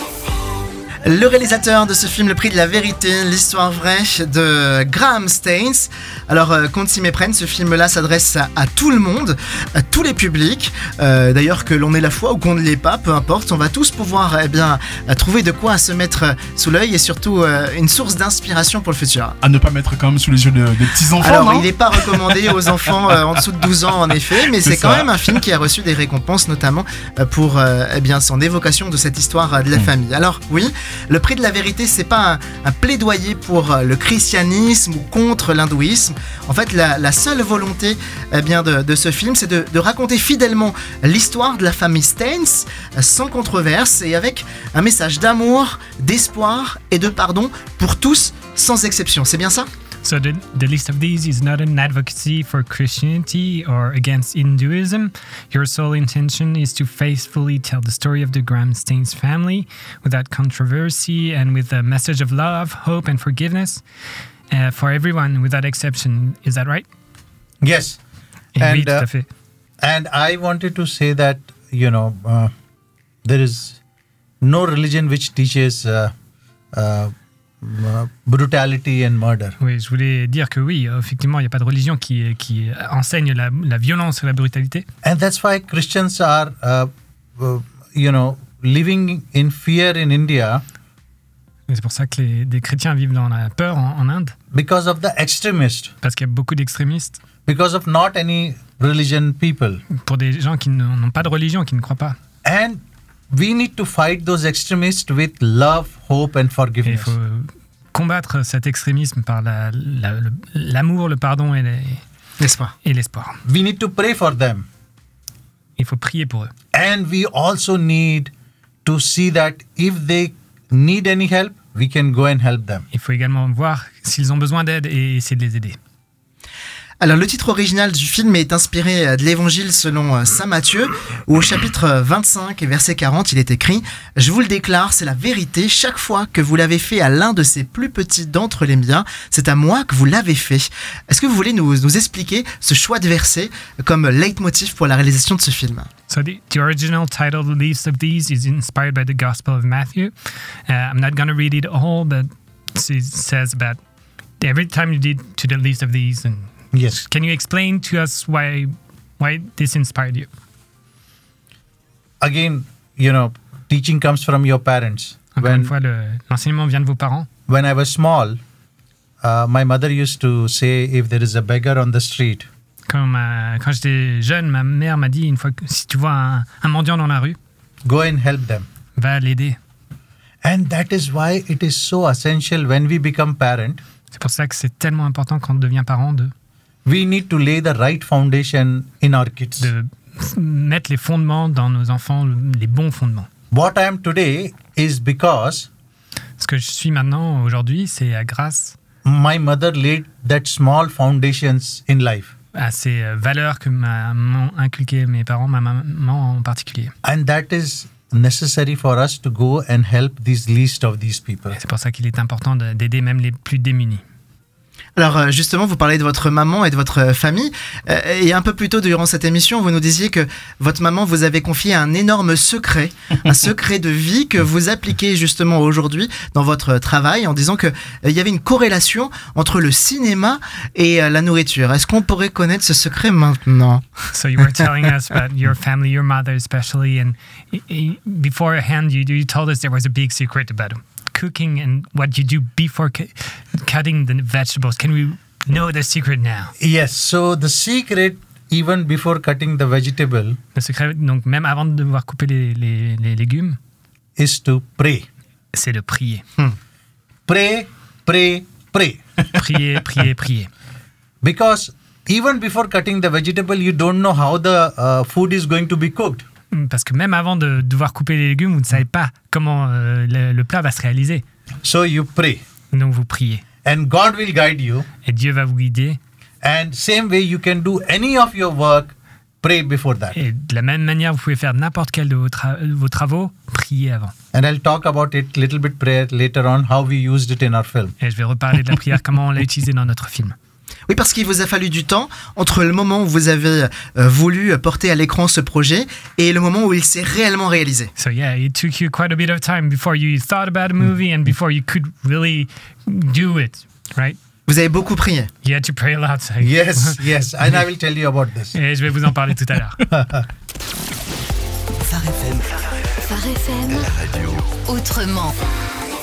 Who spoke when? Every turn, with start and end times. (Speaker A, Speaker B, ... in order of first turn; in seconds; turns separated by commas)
Speaker A: 1.0-19.4, Speaker B: 19.4-22.9, Speaker A: 21.2-49.7, Speaker B: 24.6-25.4, Speaker C: 50.0-63.8, Speaker C: 64.5-66.9, Speaker D: 67.6-68.0, Speaker C: 68.5-69.3, Speaker D: 68.6-69.1, Speaker D: 69.8-72.5, Speaker D: 73.2-73.8, Speaker D: 74.4-76.1, Speaker D: 76.7-79.6, Speaker C: 79.6-84.9, Speaker D: 85.0-90.6, Speaker C: 91.7-94.3, Speaker D: 94.5-95.9, Speaker C: 96.0-97.2, Speaker D: 97.5-99.8, Speaker C: 99.9-102.2, Speaker D: 102.4-107.2, Speaker C: 106.8-112.0, Speaker A: 112.4-112.7, Speaker C: 112.8-113.4, Speaker D: 113.5-114.7, Speaker C: 115.8-116.5, Speaker D: 116.7-118.3, Speaker D: 118.8-122.8, Speaker C: 122.9-125.8, Speaker A: 127.0-145.9, Speaker C: 146.1-150.1, Speaker C: 150.7-153.8, Speaker C: 154.4-160.3, Speaker D: 156.7-157.0, Speaker D: 162.2-165.7, Speaker C: 165.4-167.3, Speaker D: 167.5-168.4, Speaker D: 169.2-172.5, Speaker C: 172.9-177.4, Speaker D: 177.8-178.7, Speaker C: 179.0-179.6, Speaker D: 180.4-183.8, Speaker C: 184.1-186.3, Speaker D: 186.8-189.7, Speaker C: 189.6-193.3, Speaker D: 193.5-195.7, Speaker C: 196.4-198.8, Speaker D: 199.0-202.3, Speaker C: 202.5-206.9, Speaker D: 207.0-211.6, Speaker C: 211.5-214.0, Speaker A: 215.0-233.9, Speaker C: 234.1-246.5, Speaker D: 246.6-250.4, Speaker C: 250.6-253.6, Speaker D: 254.2-255.1, Speaker C: 255.5-256.2, Speaker D: 257.3-259.0, Speaker C: 259.3-260.5, Speaker D: 261.2-266.2, Speaker C: 266.5-271.2, Speaker D: 271.6-272.4, Speaker C: 272.7-273.4, Speaker D: 273.6-274.9, Speaker C: 275.1-276.0, Speaker D: 276.4-280.2, Speaker C: 280.1-284.1, Speaker D: 284.3-287.9, Speaker C: 288.0-290.4, Speaker A: 290.9-297.9, Speaker C: 298.0-304.2, Speaker A: 304.5-305.3, Speaker C: 305.4-307.0, Speaker D: 306.4-308.6, Speaker C: 308.5-309.9, Speaker D: 309.9-310.3, Speaker E: 311.9-312.4, Speaker E: 313.1-315.4